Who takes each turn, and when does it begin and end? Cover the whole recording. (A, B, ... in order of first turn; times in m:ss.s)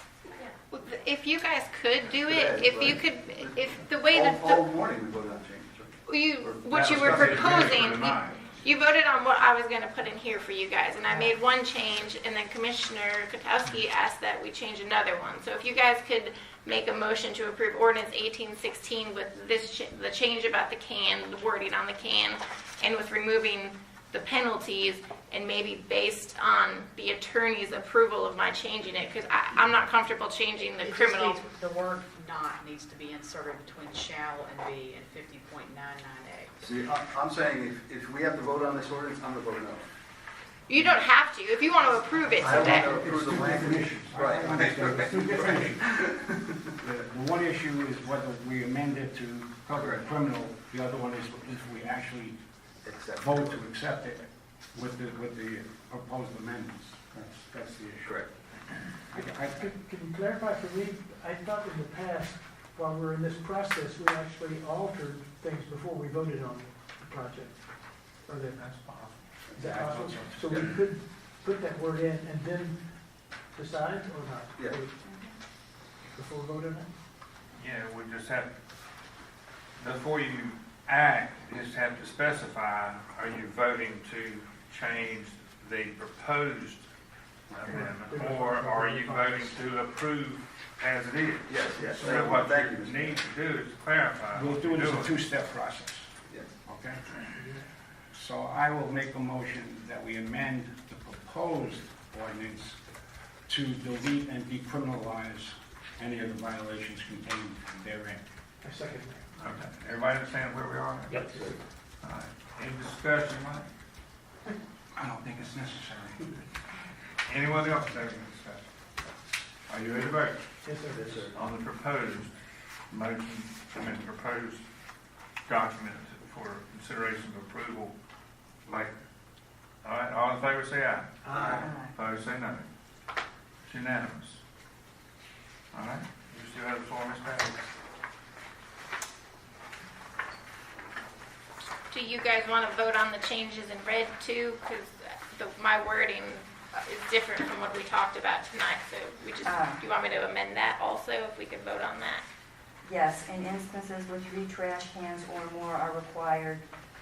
0:00.4-0:04.7 A
0:02.3-0:07.9 B
0:06.1-0:31.4 A
0:06.7-0:08.6 C
0:30.8-0:36.5 D
0:36.6-0:39.9 B
0:40.7-0:43.0 A
0:42.4-0:46.2 E
0:42.4-0:46.5 B
0:46.8-0:52.4 E
0:49.7-0:50.1 B
0:52.8-0:53.6 B
0:53.2-0:58.2 E
0:58.0-0:58.3 B
0:59.1-0:59.7 E
0:59.5-1:07.6 F
1:08.2-1:08.6 F
1:08.5-1:10.7 C
1:09.5-1:10.7 B
1:09.6-1:15.0 F
1:15.0-1:15.3 G
1:16.0-1:16.9 F
1:17.5-1:18.5 C
1:19.8-1:26.8 C
1:27.5-1:35.1 C
1:27.6-1:29.6 F
1:31.5-1:33.2 B
1:34.3-1:37.1 E
1:37.4-1:37.7 F
1:38.1-1:42.8 E
1:43.5-1:48.2 E
1:48.6-1:49.6 F
1:49.4-1:51.3 C
1:51.3-1:51.6 B
1:52.0-1:53.7 C
1:55.0-1:56.5 E
1:57.3-1:58.7 C
1:59.7-2:00.4 C
2:00.6-2:01.3 F
2:00.9-2:01.4 B
2:01.3-2:02.3 C
2:02.9-2:04.6 C
2:05.5-2:07.9 C
2:08.7-2:08.9 C
2:09.8-2:12.7 C
2:11.2-2:11.6 F
2:11.3-2:11.7 B
2:11.4-2:11.9 G
2:13.6-2:14.4 C
2:15.7-2:17.6 C
2:21.9-2:32.2 A
2:29.4-2:29.8 G
2:32.8-2:36.6 G